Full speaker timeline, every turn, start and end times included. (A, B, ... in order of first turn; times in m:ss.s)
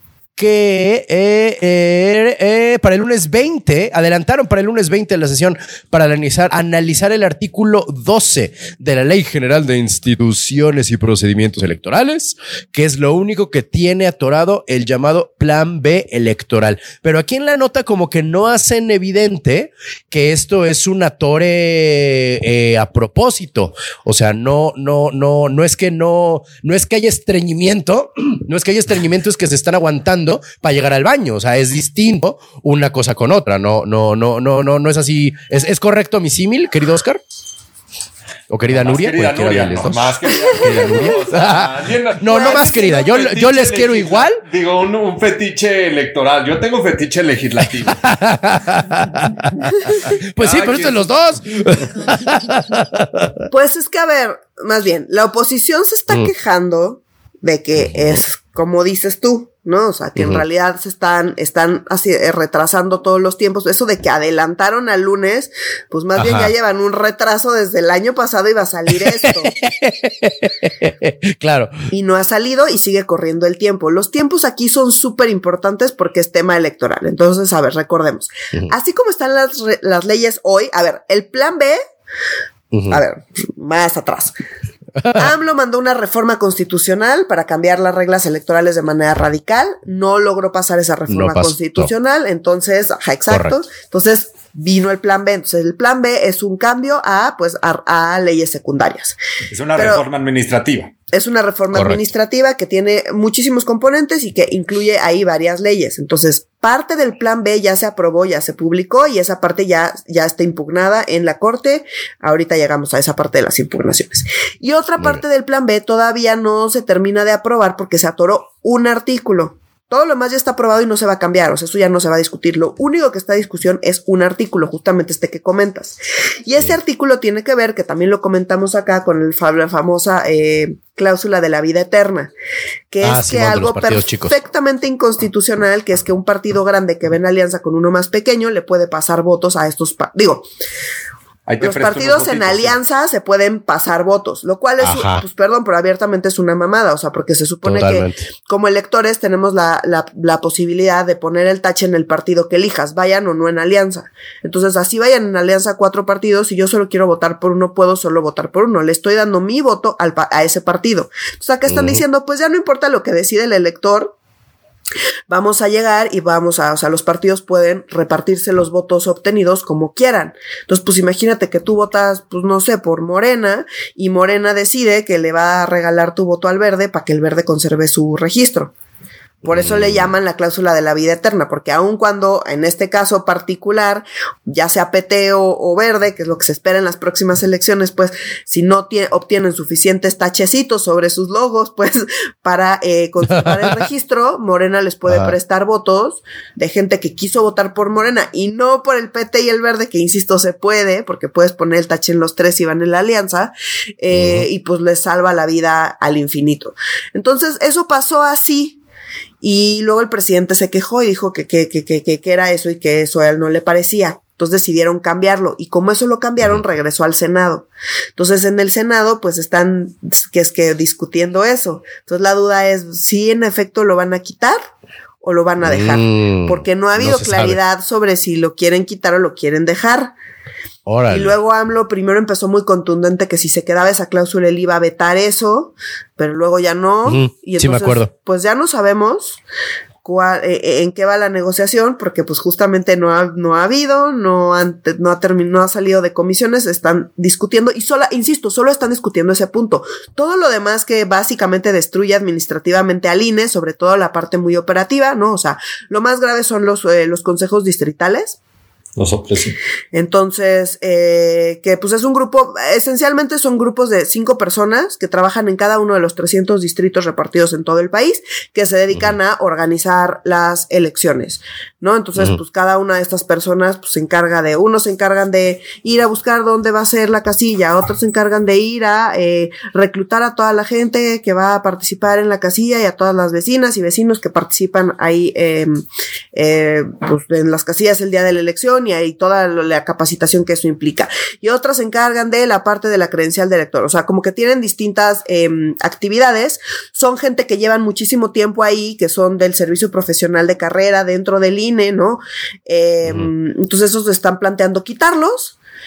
0:00.4-0:37.2 A
0:38.5-0:44.4 A
0:38.7-0:48.0 B
0:42.3-0:42.6 C
0:47.9-0:53.4 A
0:50.4-0:51.3 B
0:53.5-1:09.6 C
1:00.2-1:00.4 A
1:06.2-1:06.5 A
1:09.0-1:11.7 A
1:11.9-1:21.8 C
1:22.7-1:23.0 A
1:22.9-1:24.3 C
1:25.0-1:25.3 A
1:25.1-1:39.2 C
1:31.1-1:31.9 A
1:33.3-1:33.6 A
1:39.5-1:40.9 B
1:39.7-1:40.0 C
1:41.1-2:12.3 C
1:41.7-1:42.0 A
2:12.9-2:20.4 C
2:13.0-2:14.3 A
2:21.5-2:22.8 B
2:21.6-2:44.1 C
2:24.8-2:25.2 A
2:27.6-2:28.2 A
2:41.7-2:42.0 A
2:45.3-2:58.7 C
2:59.4-3:00.1 A
2:59.4-3:28.8 C
3:13.4-3:13.8 A
3:15.1-3:15.3 A
3:24.1-3:24.4 A
3:29.4-3:44.6 C
3:45.2-3:50.1 C
3:45.6-3:47.6 A
3:50.8-3:51.3 A
3:51.1-3:59.4 C
3:57.0-3:58.1 A
4:00.0-4:18.4 C
4:19.0-4:19.6 B
4:19.9-4:45.8 C
4:46.3-5:05.6 C